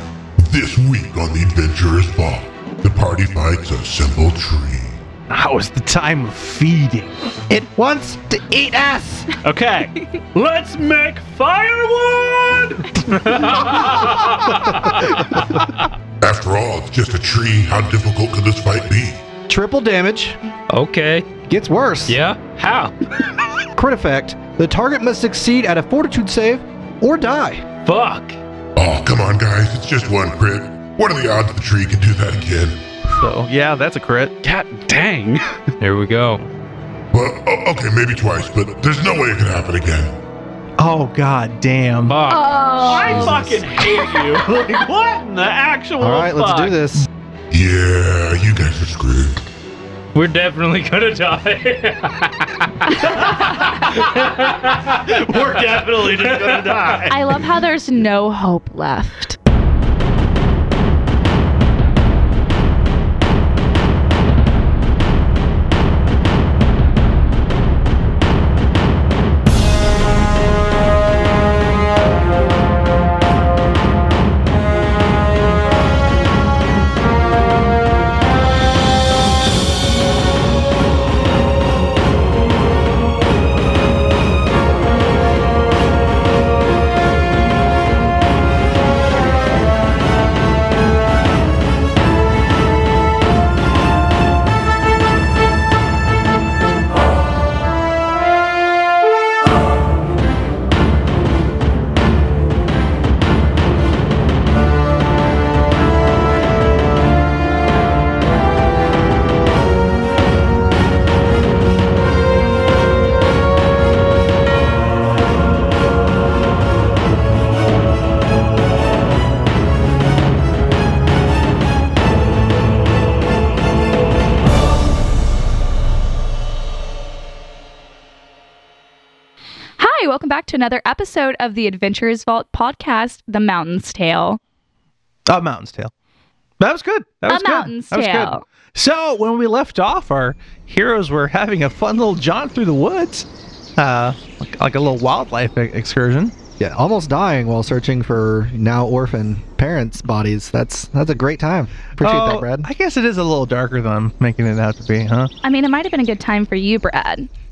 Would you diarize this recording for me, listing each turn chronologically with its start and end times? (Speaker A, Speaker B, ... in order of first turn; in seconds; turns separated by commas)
Speaker A: 0.4-5.0, Speaker B: 5.3-7.6, Speaker C: 7.5-9.3, Speaker D: 9.4-15.5, Speaker E: 9.9-10.2, Speaker F: 13.1-14.5, Speaker A: 16.2-19.2, Speaker C: 19.5-20.4, Speaker F: 20.7-21.3, Speaker C: 21.5-22.2, Speaker F: 22.1-22.9, Speaker C: 23.8-27.7, Speaker F: 27.9-28.4, Speaker A: 28.8-32.8, Speaker B: 33.1-34.4, Speaker D: 34.4-35.7, Speaker F: 35.8-36.5, Speaker A: 37.1-40.2, Speaker B: 40.8-42.2, Speaker F: 42.1-43.3, Speaker E: 42.3-43.8, Speaker D: 42.8-46.8, Speaker C: 46.0-47.1, Speaker A: 47.5-49.4, Speaker F: 50.1-55.0, Speaker D: 53.0-54.3, Speaker D: 54.9-57.2, Speaker F: 56.1-56.7, Speaker E: 57.1-59.4, Speaker E: 129.8-134.4, Speaker B: 135.3-135.9, Speaker B: 136.6-146.3, Speaker E: 137.3-138.4, Speaker C: 146.6-152.7, Speaker B: 152.0-155.3, Speaker E: 155.4-157.3